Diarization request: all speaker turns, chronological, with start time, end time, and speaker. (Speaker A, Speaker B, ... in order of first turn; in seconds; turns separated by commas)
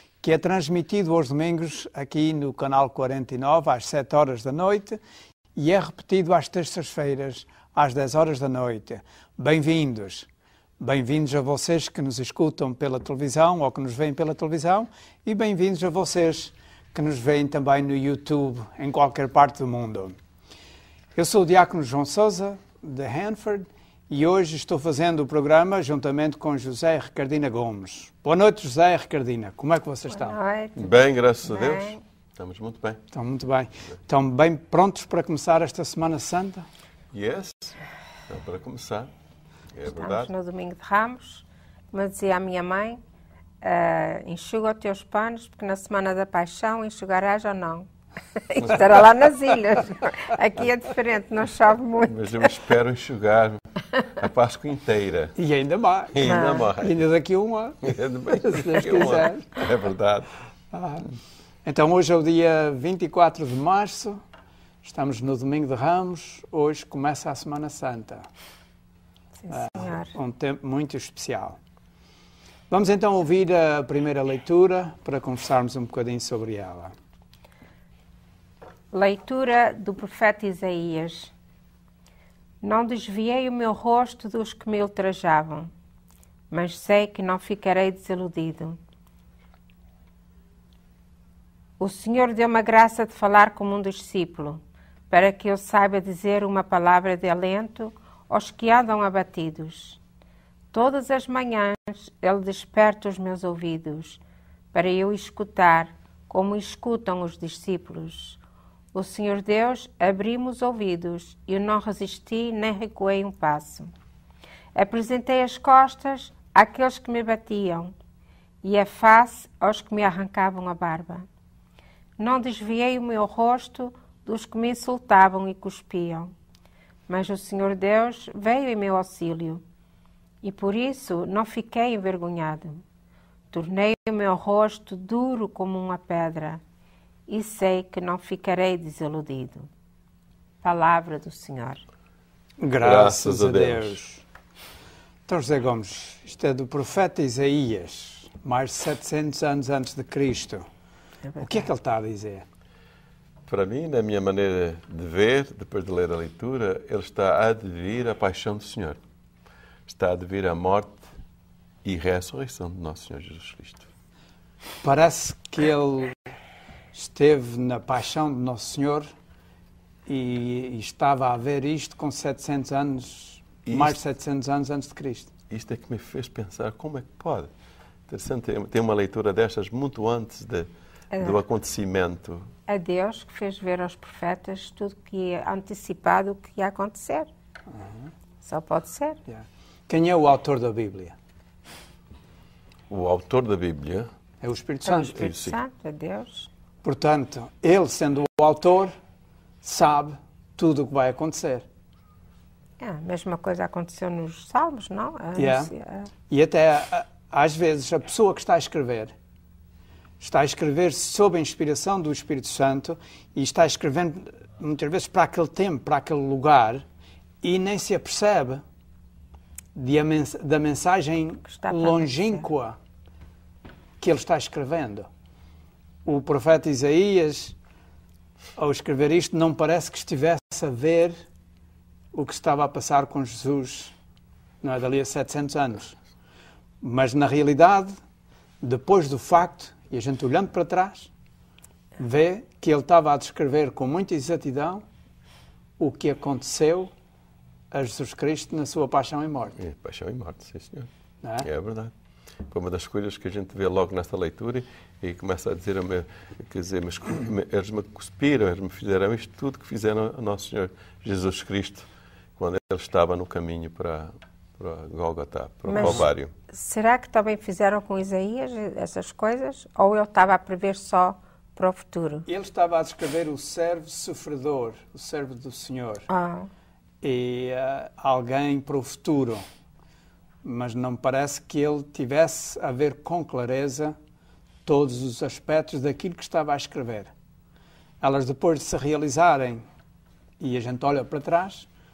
Speaker A: 0.2-5.0, Speaker A: 5.6-10.3, Speaker A: 10.8-20.2, Speaker A: 21.1-30.4, Speaker B: 30.1-32.0, Speaker C: 30.8-33.0, Speaker A: 33.1-36.7, Speaker C: 37.1-39.1, Speaker C: 39.7-40.3, Speaker B: 39.9-43.0, Speaker B: 43.6-52.5, Speaker C: 52.0-55.4, Speaker A: 55.4-59.5, Speaker C: 56.1-57.0, Speaker B: 56.2-56.7, Speaker C: 57.8-60.3, Speaker A: 60.7-61.1, Speaker A: 61.6-64.2, Speaker A: 64.8-68.3, Speaker B: 69.4-70.1, Speaker A: 69.5-71.6, Speaker A: 72.7-76.9, Speaker B: 78.9-81.3, Speaker B: 82.6-85.7, Speaker B: 86.5-88.8, Speaker B: 91.8-100.0, Speaker B: 100.7-104.2, Speaker B: 104.7-108.4, Speaker B: 108.9-113.9, Speaker B: 114.8-117.9, Speaker B: 118.6-121.3, Speaker B: 122.2-126.3, Speaker B: 127.1-129.6, Speaker B: 130.4-132.8, Speaker B: 133.5-136.6, Speaker B: 137.3-139.7, Speaker B: 140.6-141.8, Speaker A: 142.6-144.2, Speaker C: 142.8-144.0, Speaker A: 145.3-150.7, Speaker B: 151.2-151.7, Speaker A: 151.4-152.4, Speaker C: 153.5-159.0, Speaker C: 159.9-161.1, Speaker C: 161.8-163.9, Speaker A: 164.8-166.2, Speaker A: 166.9-169.1, Speaker A: 170.1-175.3, Speaker C: 173.7-174.0, Speaker C: 175.5-177.5, Speaker C: 178.1-180.7, Speaker B: 181.1-181.4, Speaker C: 181.2-182.5, Speaker B: 182.7-187.3, Speaker B: 188.4-189.2, Speaker A: 189.3-191.2, Speaker C: 192.9-194.1, Speaker A: 194.4-195.3, Speaker B: 194.8-196.5, Speaker C: 195.1-195.6, Speaker A: 196.8-198.9, Speaker A: 199.6-201.7, Speaker B: 202.8-206.1, Speaker A: 205.4-205.7, Speaker A: 206.3-209.1, Speaker A: 210.2-216.8, Speaker A: 217.4-218.6, Speaker A: 219.8-222.8, Speaker B: 221.5-222.5, Speaker A: 224.0-225.1, Speaker A: 226.1-227.6, Speaker A: 228.6-231.2, Speaker A: 232.1-233.9, Speaker A: 234.6-236.0, Speaker A: 236.8-238.0, Speaker A: 238.6-241.1, Speaker A: 242.0-244.8, Speaker A: 245.8-246.9, Speaker A: 247.7-249.6, Speaker C: 249.6-250.9, Speaker A: 251.2-251.5, Speaker C: 251.4-251.9, Speaker C: 252.5-266.3, Speaker B: 265.7-272.3, Speaker A: 265.8-266.0, Speaker A: 272.3-276.1, Speaker B: 276.1-276.5, Speaker A: 277.0-279.4, Speaker A: 280.4-283.9, Speaker A: 284.7-287.1, Speaker A: 288.0-289.6, Speaker A: 290.4-291.7